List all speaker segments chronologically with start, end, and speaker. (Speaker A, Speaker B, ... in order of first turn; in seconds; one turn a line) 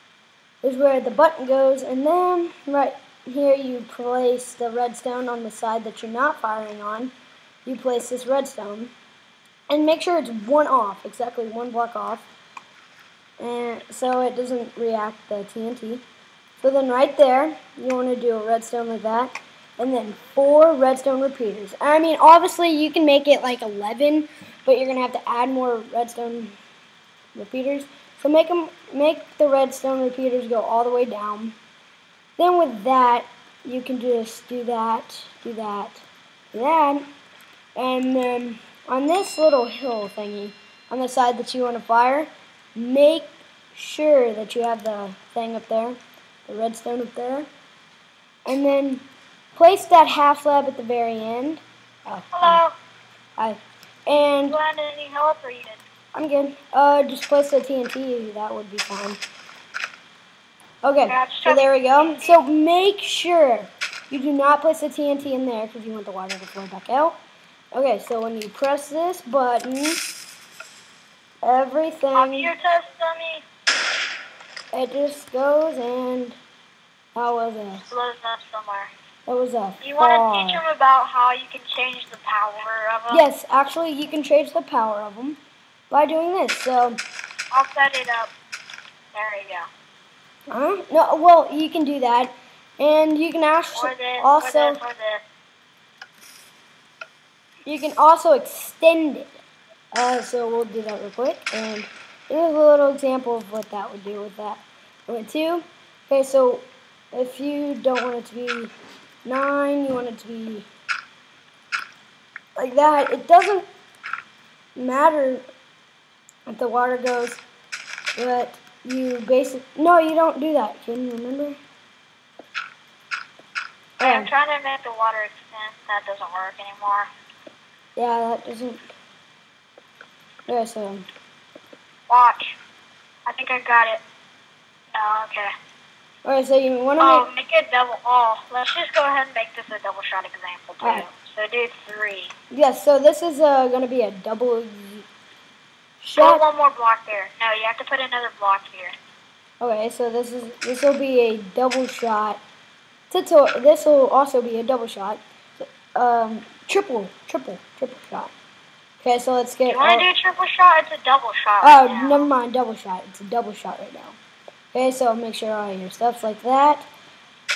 Speaker A: 0.6-7.1
Speaker A: 7.7-8.9
Speaker A: 9.7-12.3
Speaker A: 13.4-16.0
Speaker A: 16.6-26.5
Speaker A: 27.3-31.6
Speaker A: 32.4-37.1
Speaker A: 37.8-47.5
Speaker A: 48.5-49.0
Speaker A: 49.5-52.6
Speaker B: 52.3-52.7
Speaker A: 53.4-54.6
Speaker B: 54.5-55.8
Speaker A: 56.1-59.2
Speaker A: 60.8-67.2
Speaker B: 61.0-62.4
Speaker A: 67.7-70.0
Speaker A: 71.4-72.5
Speaker B: 72.1-73.4
Speaker A: 74.7-76.4
Speaker A: 77.1-77.9
Speaker B: 77.9-78.9
Speaker A: 79.3-80.6
Speaker B: 79.8-83.2
Speaker A: 83.1-85.4
Speaker A: 85.9-87.0
Speaker B: 87.5-88.3
Speaker B: 89.1-89.7
Speaker A: 90.5-94.8
Speaker B: 93.7-95.2
Speaker A: 97.6-99.4
Speaker A: 99.9-108.7
Speaker A: 109.2-110.7
Speaker A: 112.5-113.7
Speaker A: 114.8-115.4
Speaker A: 116.5-117.4
Speaker A: 118.2-121.6
Speaker A: 124.0-124.3
Speaker B: 124.0-127.1
Speaker A: 128.0-128.8
Speaker A: 130.5-131.1
Speaker B: 132.1-132.5
Speaker B: 133.2-134.0
Speaker B: 134.9-135.5
Speaker A: 136.2-137.3
Speaker B: 137.0-142.3
Speaker A: 140.8-141.1
Speaker A: 142.5-145.1
Speaker A: 146.0-146.4
Speaker B: 146.2-148.9
Speaker A: 149.6-152.4
Speaker A: 153.1-158.3
Speaker A: 159.0-160.1
Speaker B: 159.7-162.3
Speaker A: 161.6-164.2
Speaker A: 164.7-166.8